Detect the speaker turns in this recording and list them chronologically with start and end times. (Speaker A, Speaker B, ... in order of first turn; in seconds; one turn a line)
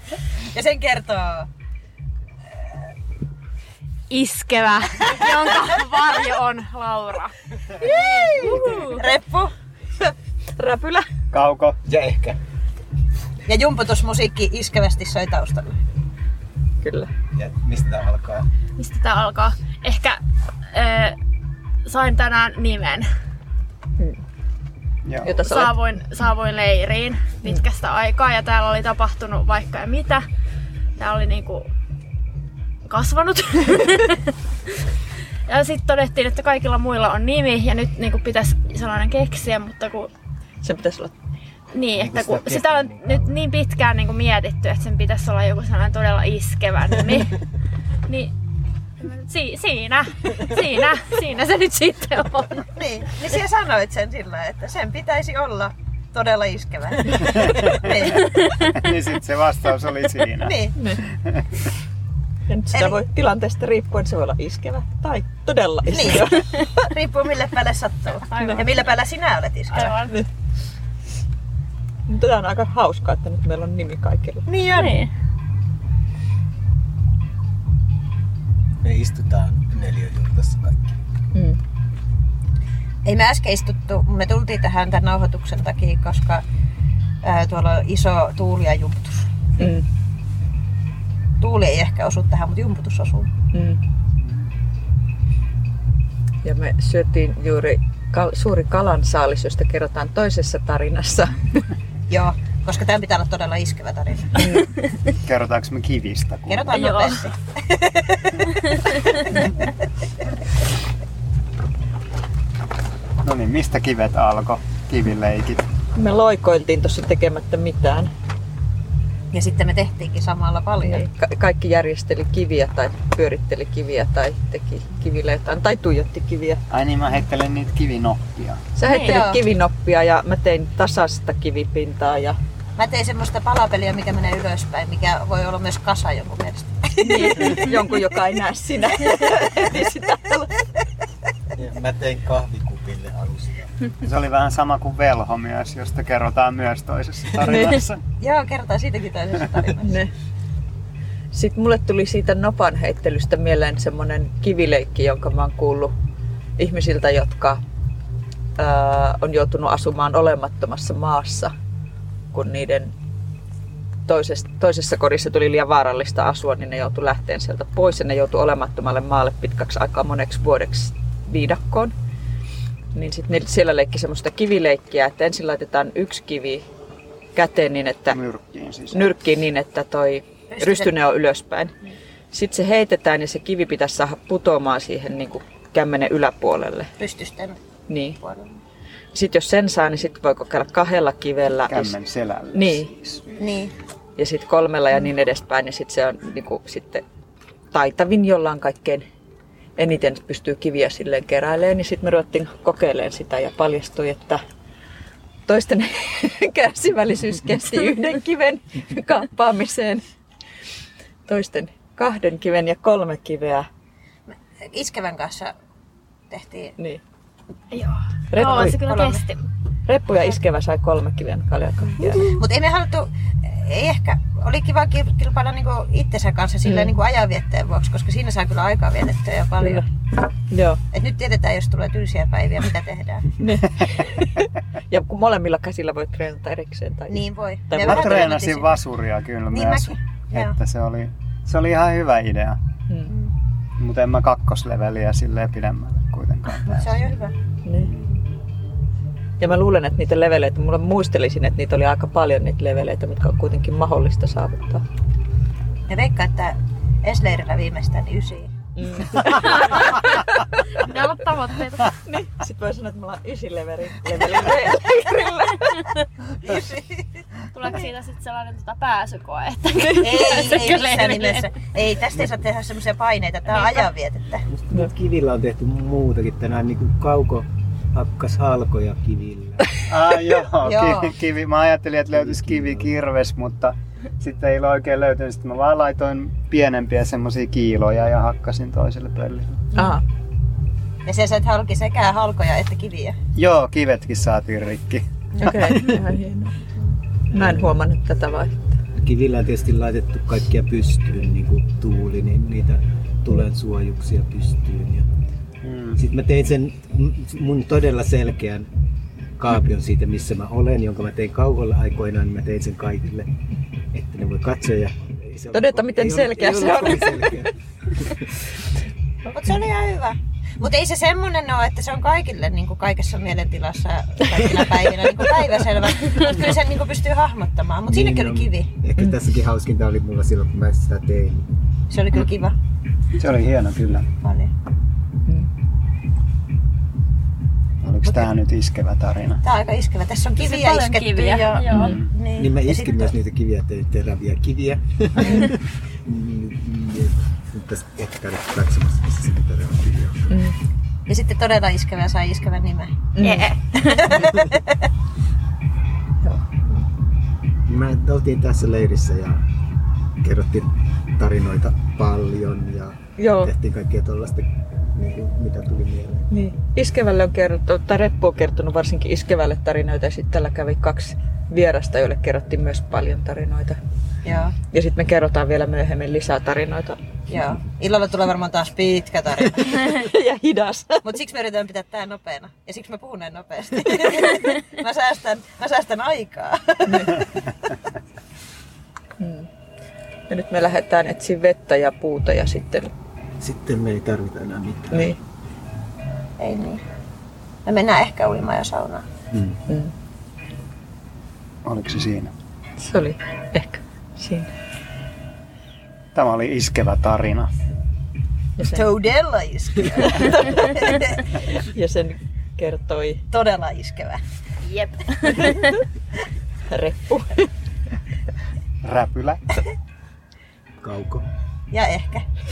Speaker A: 0.5-1.5
Speaker B: 4.1-9.0
Speaker A: 5.2-5.7
Speaker C: 7.8-9.0
Speaker A: 8.9-9.5
Speaker C: 10.5-11.1
Speaker D: 11.3-11.8
Speaker E: 11.9-12.4
Speaker A: 13.5-15.8
Speaker C: 16.8-17.1
Speaker E: 17.3-18.4
Speaker B: 18.8-20.2
Speaker B: 20.7-21.1
Speaker B: 21.9-23.1
Speaker C: 25.2-25.8
Speaker B: 25.3-30.2
Speaker B: 30.9-31.7
Speaker B: 32.9-34.3
Speaker B: 35.5-40.1
Speaker C: 40.6-41.1
Speaker B: 41.7-47.4
Speaker E: 41.9-43.4
Speaker B: 48.1-48.3
Speaker B: 49.0-52.6
Speaker A: 52.7-58.4
Speaker D: 57.2-60.5
Speaker A: 60.4-60.7
Speaker C: 60.8-61.0
Speaker D: 61.1-61.4
Speaker C: 62.5-66.7
Speaker A: 62.7-63.0
Speaker A: 65.8-69.9
Speaker B: 68.3-68.7
Speaker C: 68.4-68.6
Speaker B: 69.7-70.1
Speaker C: 69.8-70.3
Speaker C: 72.1-74.9
Speaker A: 74.5-75.0
Speaker B: 74.7-75.1
Speaker E: 78.8-80.9
Speaker A: 83.0-86.4
Speaker A: 87.2-89.3
Speaker C: 89.6-89.9
Speaker A: 91.4-93.3
Speaker C: 93.5-93.8
Speaker C: 96.4-101.7
Speaker A: 102.1-104.5
Speaker C: 104.3-104.6
Speaker D: 105.2-106.8
Speaker A: 106.5-108.8
Speaker B: 106.7-107.2
Speaker B: 108.6-109.4
Speaker D: 113.2-115.7
Speaker C: 115.9-118.1
Speaker A: 119.3-121.0
Speaker C: 120.8-126.6
Speaker D: 126.7-128.6
Speaker C: 128.8-132.4
Speaker B: 128.9-129.2
Speaker A: 128.9-129.4
Speaker A: 132.8-137.9
Speaker C: 137.0-140.6
Speaker E: 141.6-143.7
Speaker D: 144.0-148.0
Speaker C: 147.5-147.8
Speaker A: 148.2-150.0
Speaker C: 149.7-150.1
Speaker C: 151.3-155.9
Speaker C: 156.6-157.6
Speaker C: 158.6-161.5
Speaker C: 162.3-162.9
Speaker C: 164.1-171.9
Speaker C: 172.9-176.6
Speaker C: 177.3-178.2
Speaker D: 178.1-179.1
Speaker C: 178.9-181.7
Speaker A: 180.5-180.9
Speaker C: 182.3-186.9
Speaker A: 187.0-187.6
Speaker C: 187.9-188.2
Speaker A: 188.2-188.6
Speaker C: 189.1-191.9
Speaker D: 191.7-193.3
Speaker C: 192.5-192.9
Speaker A: 193.4-193.7
Speaker C: 194.2-197.0
Speaker C: 197.7-199.1
Speaker C: 199.8-204.4
Speaker C: 205.5-210.0
Speaker C: 211.2-213.7
Speaker A: 214.3-215.5
Speaker A: 216.3-216.7
Speaker C: 216.8-217.0
Speaker B: 217.7-219.4
Speaker C: 218.3-218.8
Speaker A: 218.4-219.2
Speaker C: 219.9-222.4
Speaker A: 222.2-229.8
Speaker C: 226.6-227.0
Speaker C: 229.6-229.8
Speaker C: 230.5-230.8
Speaker A: 230.9-233.3
Speaker C: 233.3-238.3
Speaker A: 237.1-238.8
Speaker D: 237.8-242.6
Speaker A: 239.5-240.6
Speaker D: 243.8-247.1
Speaker A: 246.6-247.3
Speaker C: 247.6-247.9
Speaker D: 247.7-248.1
Speaker C: 249.4-254.8
Speaker A: 255.9-258.5
Speaker C: 258.8-261.0
Speaker B: 259.4-259.8
Speaker B: 260.7-261.9
Speaker C: 261.8-265.9
Speaker A: 266.4-267.2
Speaker B: 267.5-271.5
Speaker A: 269.9-274.4
Speaker E: 274.5-279.8
Speaker D: 279.9-289.6
Speaker A: 280.6-281.1
Speaker E: 282.1-282.9
Speaker C: 289.7-290.0
Speaker A: 291.1-293.1
Speaker D: 293.3-295.0
Speaker C: 295.4-296.5
Speaker E: 295.6-295.9
Speaker E: 297.3-297.8
Speaker C: 297.3-298.7
Speaker E: 299.0-305.1
Speaker D: 305.6-306.0
Speaker E: 306.0-308.7
Speaker E: 309.4-313.3
Speaker E: 313.9-318.3
Speaker C: 315.5-317.4
Speaker A: 319.2-328.7
Speaker E: 327.9-331.5
Speaker A: 331.9-332.5
Speaker D: 333.2-334.1
Speaker A: 334.2-334.5
Speaker D: 337.8-339.4
Speaker A: 339.4-343.1
Speaker B: 340.4-341.9
Speaker D: 341.7-342.1
Speaker E: 342.4-350.4
Speaker A: 345.2-345.5
Speaker C: 350.3-350.6
Speaker A: 351.1-352.9
Speaker C: 353.1-353.5
Speaker B: 353.2-354.4
Speaker A: 353.9-354.8
Speaker E: 357.7-359.4
Speaker E: 360.2-366.2
Speaker C: 363.2-363.5
Speaker C: 366.3-373.8
Speaker A: 374.2-374.5
Speaker C: 374.7-377.0
Speaker A: 377.3-380.0
Speaker C: 379.5-381.1
Speaker A: 381.0-387.6
Speaker C: 386.9-387.2
Speaker C: 389.2-389.5
Speaker C: 390.3-392.9
Speaker E: 393.4-395.1
Speaker C: 394.9-395.2
Speaker A: 396.4-396.8
Speaker A: 397.6-399.0
Speaker E: 399.3-399.6
Speaker C: 399.7-399.9
Speaker D: 401.6-402.3
Speaker C: 402.8-404.5
Speaker D: 406.1-407.5
Speaker C: 408.6-409.0
Speaker A: 408.7-411.3
Speaker C: 411.5-413.2
Speaker A: 413.3-414.2
Speaker B: 414.6-415.8
Speaker C: 416.7-417.4
Speaker D: 418.8-419.4
Speaker E: 420.8-421.2
Speaker A: 421.7-422.2